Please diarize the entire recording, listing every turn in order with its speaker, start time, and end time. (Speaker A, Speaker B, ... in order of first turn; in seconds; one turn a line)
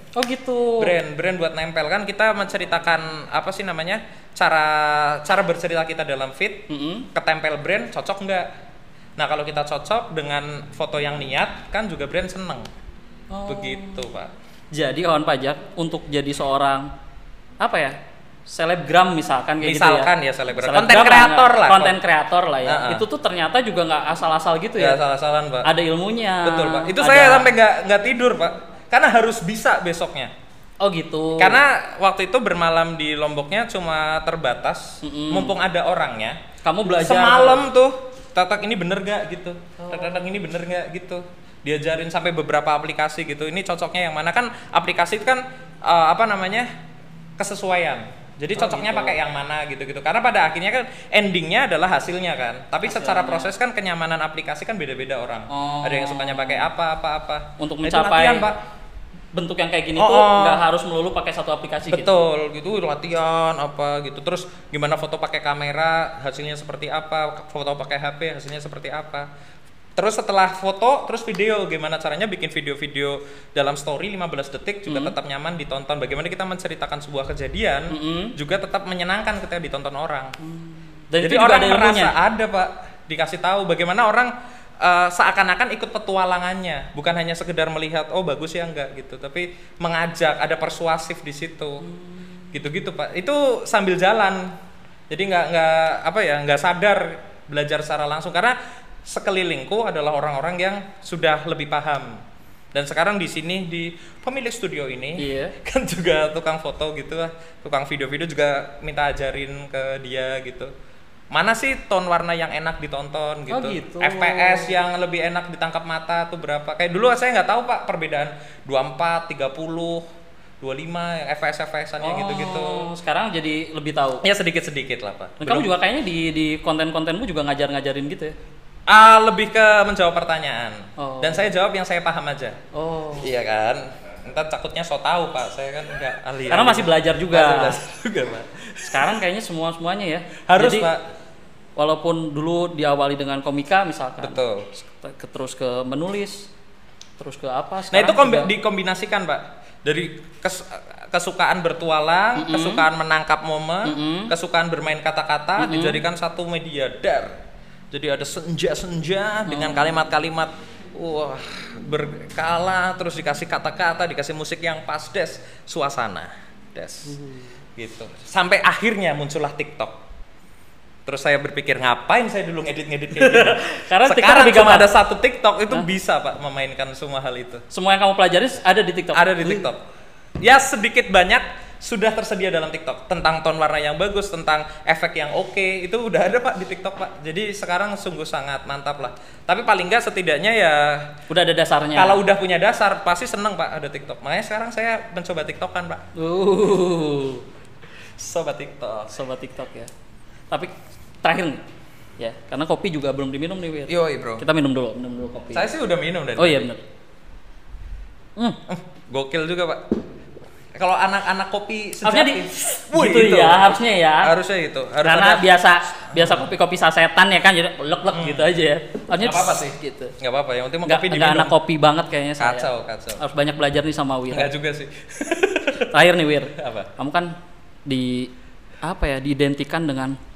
Speaker A: 0.2-1.0
Speaker B: 0.8-8.5
Speaker A: 6.7-7.1
Speaker B: 9.2-12.7
Speaker A: 13.3-14.1
Speaker B: 13.5-14.3
Speaker A: 14.7-16.9
Speaker A: 17.6-18.0
Speaker A: 18.5-25.0
Speaker B: 19.6-22.0
Speaker B: 22.6-23.1
Speaker B: 24.8-25.7
Speaker A: 25.6-27.5
Speaker B: 26.4-30.3
Speaker A: 30.8-31.6
Speaker B: 31.4-46.7
Speaker A: 35.0-35.5
Speaker A: 36.6-37.7
Speaker A: 39.8-40.2
Speaker B: 47.4-58.6
Speaker A: 48.5-49.2
Speaker A: 52.8-53.5
Speaker A: 55.5-56.7
Speaker A: 57.6-58.5
Speaker A: 59.3-62.2
Speaker B: 60.0-60.6
Speaker B: 61.9-69.3
Speaker B: 70.0-80.3
Speaker A: 74.9-75.1
Speaker A: 77.9-78.3
Speaker A: 80.4-82.2
Speaker B: 81.2-91.9
Speaker A: 91.8-92.5
Speaker B: 92.5-94.5
Speaker B: 95.1-102.2
Speaker B: 102.7-110.7
Speaker A: 105.2-105.5
Speaker B: 111.3-120.0
Speaker A: 113.5-114.7
Speaker B: 120.6-122.9
Speaker A: 122.0-124.2
Speaker B: 124.2-125.7
Speaker A: 125.4-128.3
Speaker B: 128.9-132.6
Speaker A: 131.0-131.5
Speaker A: 132.7-133.3
Speaker B: 133.2-139.2
Speaker A: 136.5-137.8
Speaker A: 138.8-140.9
Speaker B: 140.5-141.0
Speaker A: 141.8-146.5
Speaker B: 144.2-144.7
Speaker A: 147.2-148.5
Speaker B: 147.9-157.4
Speaker A: 152.4-152.9
Speaker A: 153.8-154.3
Speaker A: 155.6-156.0
Speaker B: 157.9-167.2
Speaker A: 159.5-160.0
Speaker A: 167.1-167.4
Speaker B: 167.8-170.0
Speaker B: 171.1-177.7
Speaker A: 173.2-174.9
Speaker A: 177.7-179.7
Speaker B: 179.1-179.8
Speaker B: 180.4-191.2
Speaker A: 191.3-192.2
Speaker B: 191.9-196.1
Speaker A: 196.2-197.4
Speaker B: 198.2-199.2
Speaker A: 199.1-199.9
Speaker A: 201.2-201.6
Speaker A: 202.2-205.7
Speaker B: 203.9-204.4
Speaker B: 205.5-206.7
Speaker A: 206.4-206.8
Speaker B: 208.7-209.9
Speaker B: 210.8-213.7
Speaker A: 212.0-214.3
Speaker B: 214.2-215.4
Speaker A: 215.0-220.1
Speaker B: 216.1-216.5
Speaker B: 218.1-218.5
Speaker B: 219.2-221.6
Speaker A: 220.8-224.5
Speaker B: 222.4-223.2
Speaker B: 224.3-225.9
Speaker A: 225.8-227.4
Speaker B: 226.6-226.9
Speaker A: 227.9-228.3
Speaker A: 228.8-230.2